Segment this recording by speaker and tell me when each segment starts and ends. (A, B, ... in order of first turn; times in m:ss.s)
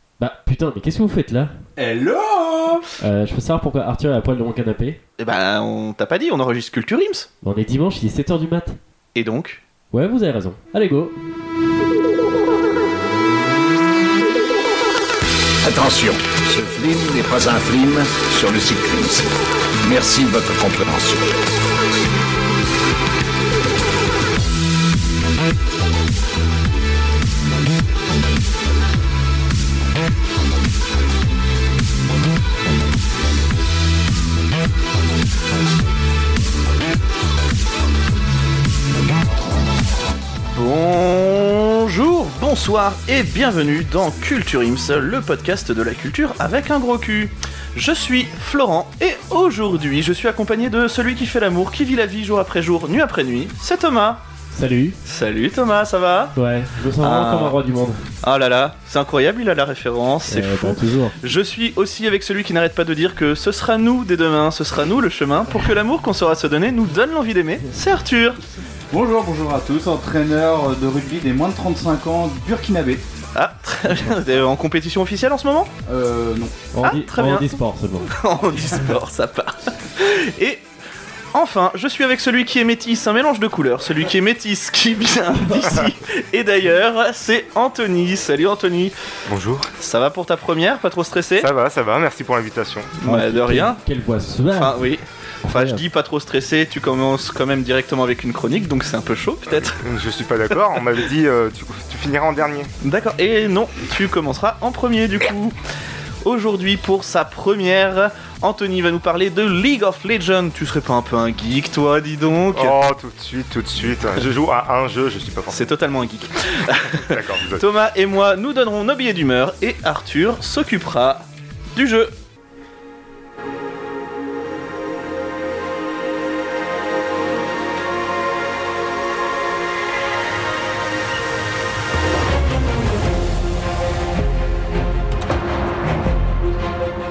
0:00.2-0:01.6 A
0:01.8-0:02.9 B
0:03.0-0:05.0 A
0:05.2-0:07.3 C
0:07.4-0:08.8 A
0:09.2-0:09.6 C
0:09.9-0:11.2 A
0:15.6-0:19.3 D
0:19.8-0:21.3 D
0:40.5-0:54.2 C
0:54.5-0:55.0 A
0:55.0-0:56.4 C
0:56.4-0:58.1 A
0:57.0-0:57.6 C
0:58.2-1:08.4 C
1:00.3-1:01.2 A
1:08.9-1:13.1 B
1:13.3-1:15.7 C
1:13.9-1:14.2 A
1:15.9-1:16.6 B
1:16.7-1:18.1 A
1:16.8-1:20.6 C
1:21.3-1:29.0 C
1:29.3-1:29.7 E
1:29.8-1:31.5 C
1:31.4-1:32.9 E
1:33.0-1:33.8 C
1:33.0-1:35.8 A
1:34.6-1:39.8 C
1:39.5-1:42.7 E
1:42.8-1:45.6 C
1:46.2-1:52.8 C
1:52.5-1:55.7 E
1:55.5-2:02.1 C
1:57.0-1:57.7 E